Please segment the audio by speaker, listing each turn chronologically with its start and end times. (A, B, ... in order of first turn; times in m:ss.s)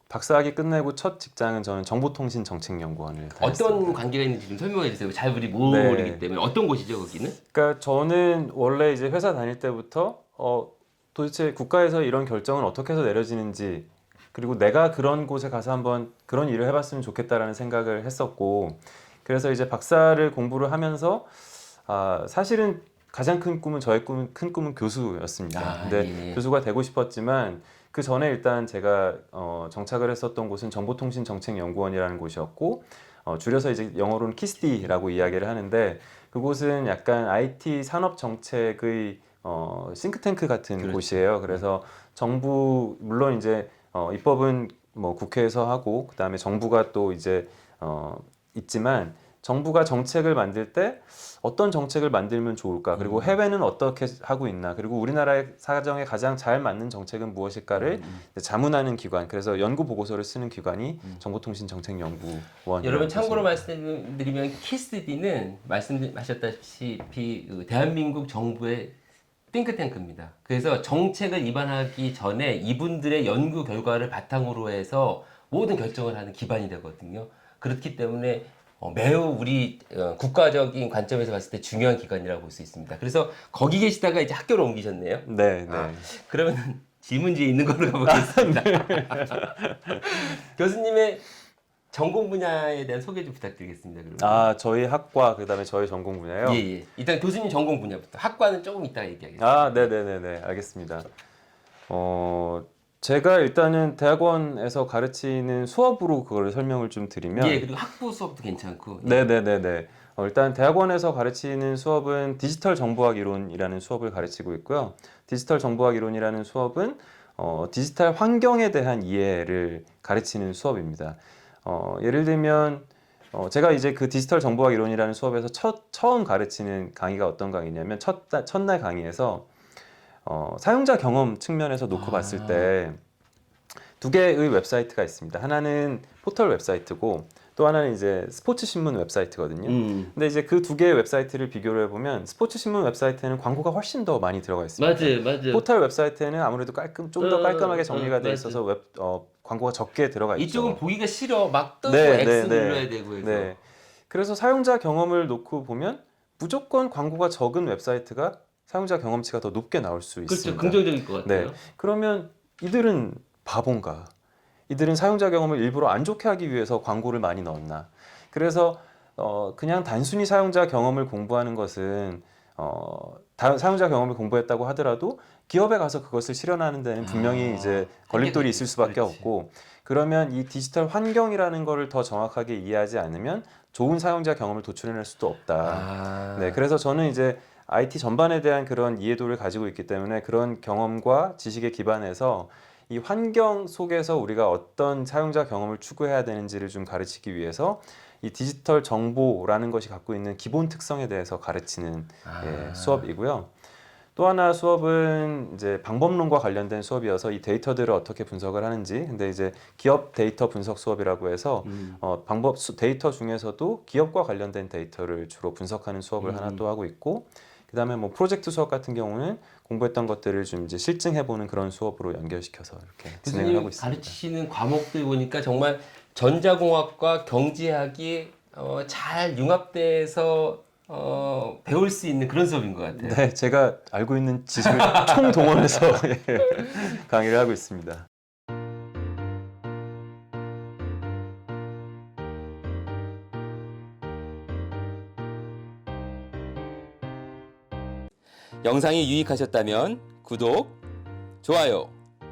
0:00.1-0:04.0 A
0:03.4-0:07.4 B
0:05.7-0:06.2 A
0:07.5-1:03.6 A
0:25.5-0:26.4 B
0:40.8-0:41.6 B
0:52.9-0:53.4 B
0:57.7-0:58.2 B
1:02.8-1:09.0 B
1:09.5-1:29.4 B
1:25.2-1:26.1 A
1:28.1-1:30.1 A
1:30.0-1:31.2 B
1:31.9-1:34.5 B
1:34.2-1:36.6 A
1:36.4-1:39.9 B
1:39.4-1:41.1 A
1:41.9-1:47.6 A
1:47.4-1:49.3 B
1:49.0-2:09.5 A
2:10.2-2:13.0 A
2:11.9-2:12.7 B
2:14.0-2:30.8 A
2:19.6-2:20.1 B
2:24.8-2:25.7 B
2:27.2-2:28.6 B
2:30.4-2:33.5 B
2:31.9-2:44.1 A
2:40.3-2:41.6 B
2:44.7-3:23.5 A
2:57.0-2:59.3 B
3:05.6-3:06.6 B
3:22.2-3:23.1 B
3:24.2-3:44.2 A
3:31.6-3:32.0 B
3:36.2-3:36.6 B
3:43.2-3:53.2 B
3:53.0-3:58.1 A
3:54.6-3:56.0 B
4:08.6-4:10.8 B
4:11.4-4:11.9 B